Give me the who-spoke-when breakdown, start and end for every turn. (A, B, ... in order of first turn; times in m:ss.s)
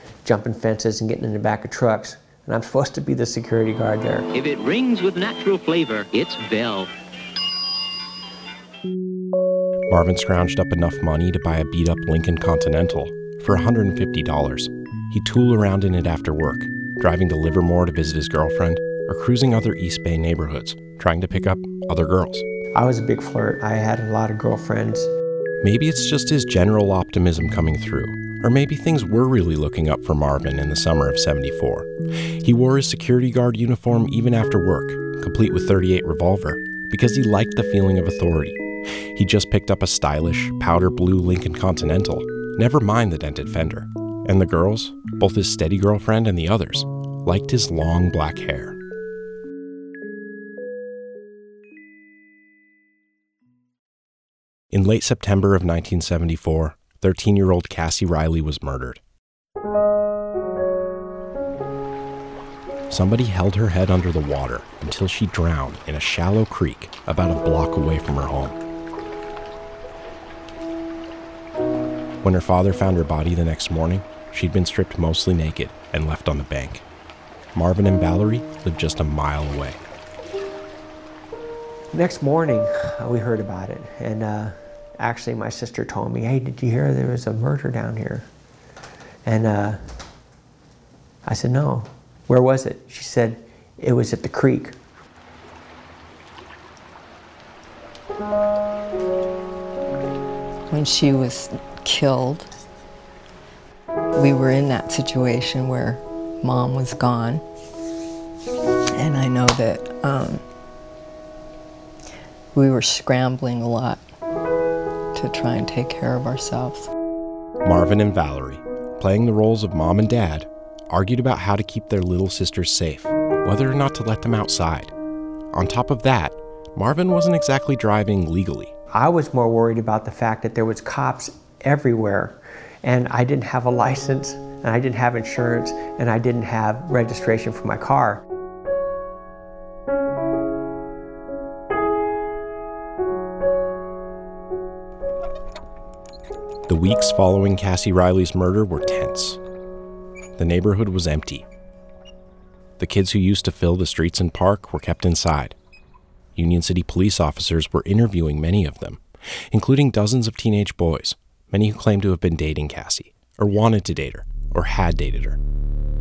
0:00.2-0:04.3 A
0:04.3-0:06.9 B
0:09.9-0:22.4 C
0:22.7-0:25.1 A
0:25.6-0:31.9 C
0:32.4-0:38.6 C
0:39.1-0:48.8 C
0:54.7-0:59.0 C
1:02.9-1:08.6 C
1:12.2-1:16.8 C
1:17.6-1:19.8 C
1:21.9-1:28.3 A
1:29.3-1:29.8 A
1:31.3-1:34.8 A
1:40.7-1:42.5 D
1:44.2-1:47.4 D
1:49.0-1:50.4 D
1:52.5-1:54.0 D
1:55.1-1:56.9 D
1:57.6-2:04.9 C
2:05.5-2:08.7 C
2:08.9-2:18.2 A
2:26.7-2:29.4 C
2:30.4-2:31.5 C
2:32.8-2:35.6 C
2:36.4-2:45.4 C